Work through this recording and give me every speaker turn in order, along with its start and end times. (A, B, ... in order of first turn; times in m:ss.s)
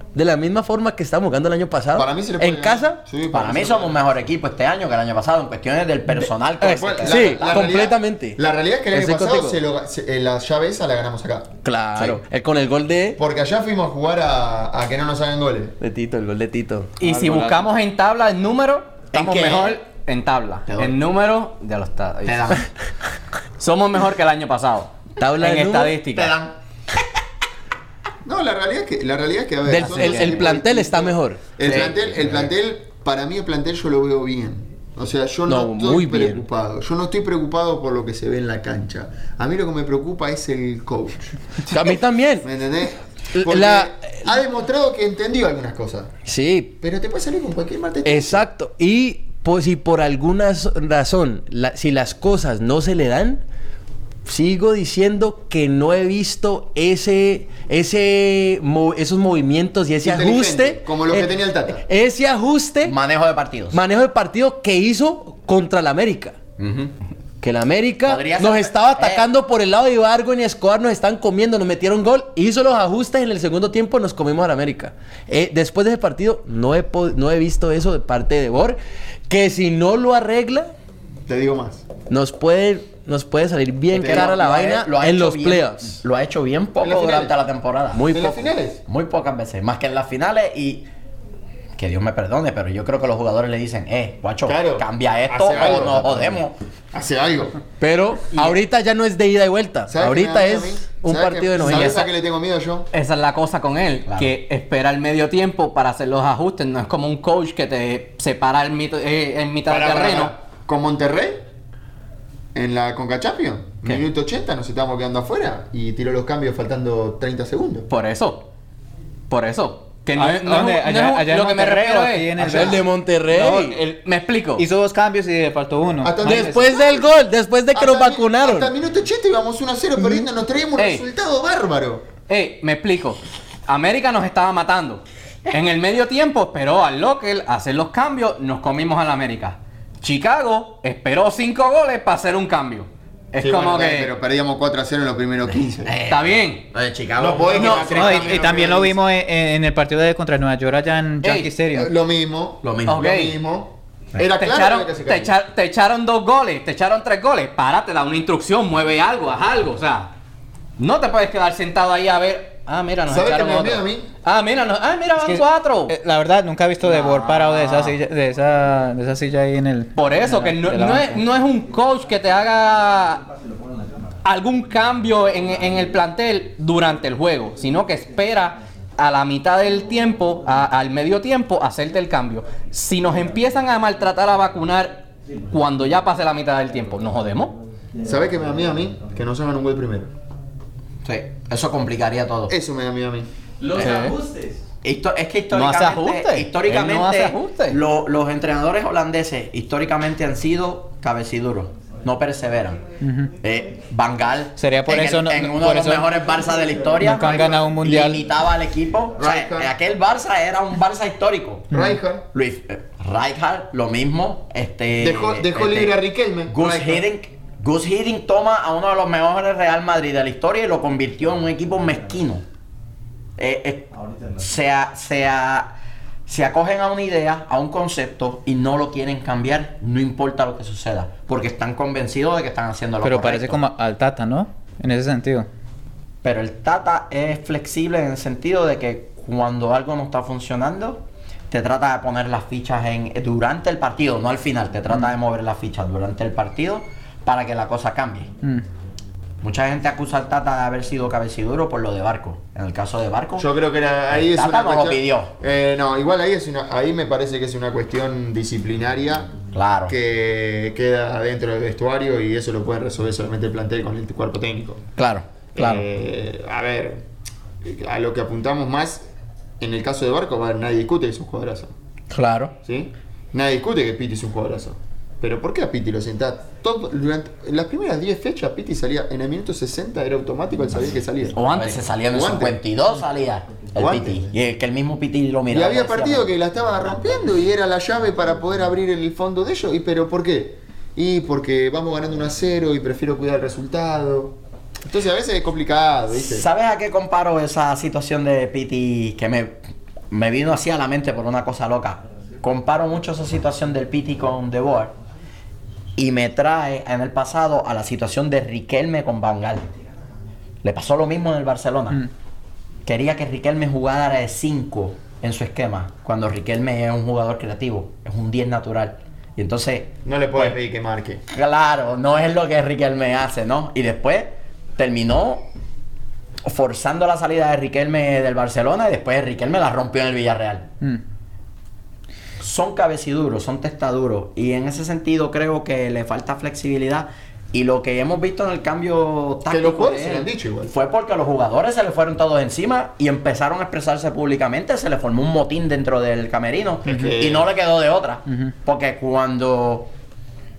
0:00.1-0:03.0 A
0:01.9-0:04.0 B
0:03.3-0:07.8 C
0:06.2-0:08.4 A
0:06.7-0:11.5 B
0:08.9-0:09.6 A
0:11.6-0:13.2 A
0:13.2-0:15.8 B
0:15.8-0:17.0 A
0:17.0-0:22.7 D
0:17.0-0:17.6 E
0:19.1-0:19.8 C
0:20.7-0:21.0 C
0:22.2-0:22.7 C
0:23.6-0:26.4 D
0:25.2-0:26.0 A
0:26.1-0:26.6 C
0:28.2-0:46.1 B
0:29.7-0:32.3 A
0:29.8-0:30.6 D
0:35.5-0:36.4 A
0:41.7-0:42.5 A
0:43.4-0:44.3 A
0:46.3-0:46.7 A
0:46.8-0:48.5 B
0:48.0-0:53.4 A
0:54.3-1:03.0 A
1:00.0-1:01.8 B
1:02.8-1:03.8 C
1:03.7-1:06.4 A
1:06.6-1:06.9 C
1:07.4-1:20.7 A
1:08.1-1:09.3 C
1:21.3-1:21.8 B
1:22.1-1:26.0 A
1:23.9-1:28.2 C
1:23.9-1:24.4 B
1:26.8-1:27.4 B
1:27.9-1:28.4 A
1:28.1-1:28.8 B
1:28.9-1:30.9 C
1:31.8-1:36.6 C
1:34.5-1:37.6 B
1:37.8-1:42.1 A
1:39.9-1:42.9 B
1:41.6-1:42.0 C
1:42.9-1:50.3 D
1:44.1-1:44.3 C
1:49.7-1:51.4 B
1:52.5-1:57.9 B
1:57.9-1:58.5 D
1:59.3-2:02.8 D
2:00.2-2:03.8 E
2:02.4-2:03.8 A
2:03.5-2:04.7 D
2:04.6-2:06.6 E
2:06.0-2:07.1 B
2:06.2-2:08.7 A
2:07.7-2:12.1 B
2:10.8-2:11.0 D
2:12.3-2:24.1 D
2:23.4-2:25.9 B
2:25.8-2:28.1 C
2:26.1-2:26.6 D
2:27.2-2:29.0 B
2:27.5-2:28.4 D
2:27.8-2:31.9 E
2:31.2-2:31.5 D
2:31.7-2:35.3 B
2:32.6-2:33.1 C
2:32.9-2:33.4 D
2:34.2-2:40.1 D
2:40.8-2:46.0 D
2:43.1-2:44.1 B
2:45.2-2:51.3 E
2:46.8-2:48.0 D
2:50.0-2:53.3 D
2:54.2-3:07.6 D
3:08.0-3:10.1 B
3:11.0-3:12.5 C
3:12.5-3:13.3 B
3:13.6-3:14.6 A
3:13.8-3:14.2 D
3:14.8-3:22.8 C
3:15.5-3:17.8 D
3:23.0-3:23.3 E
3:23.4-3:42.4 C
3:24.6-3:26.2 E
3:27.0-3:28.3 E
3:29.2-3:29.7 B
3:31.7-3:32.2 B
3:31.7-3:32.0 E
3:35.0-3:37.1 B
3:43.4-3:45.7 C
3:46.3-3:53.6 C
3:53.0-3:55.5 E
3:56.2-4:08.3 C
4:09.4-4:13.5 C
4:13.4-4:19.3 B
4:14.1-4:15.3 C
4:19.5-4:20.0 C
4:19.9-4:24.8 B
4:25.0-4:25.8 C
4:25.6-4:27.0 B
4:27.6-4:29.0 B
4:29.6-4:31.7 B
4:32.1-4:32.5 C
4:32.6-4:41.4 B
4:41.4-4:41.8 D
4:41.4-4:46.3 C
4:42.1-4:42.6 B
4:43.8-4:44.3 B
4:45.5-4:56.5 B
4:56.1-4:59.6 C
5:00.1-5:04.9 C
5:06.0-5:09.7 C
5:10.6-5:12.0 C
5:12.9-5:20.6 C
5:20.0-5:21.2 B
5:21.3-5:25.4 C
5:26.4-5:30.7 C
5:32.4-5:49.9 C
5:39.5-5:40.7 B
5:46.8-5:47.5 B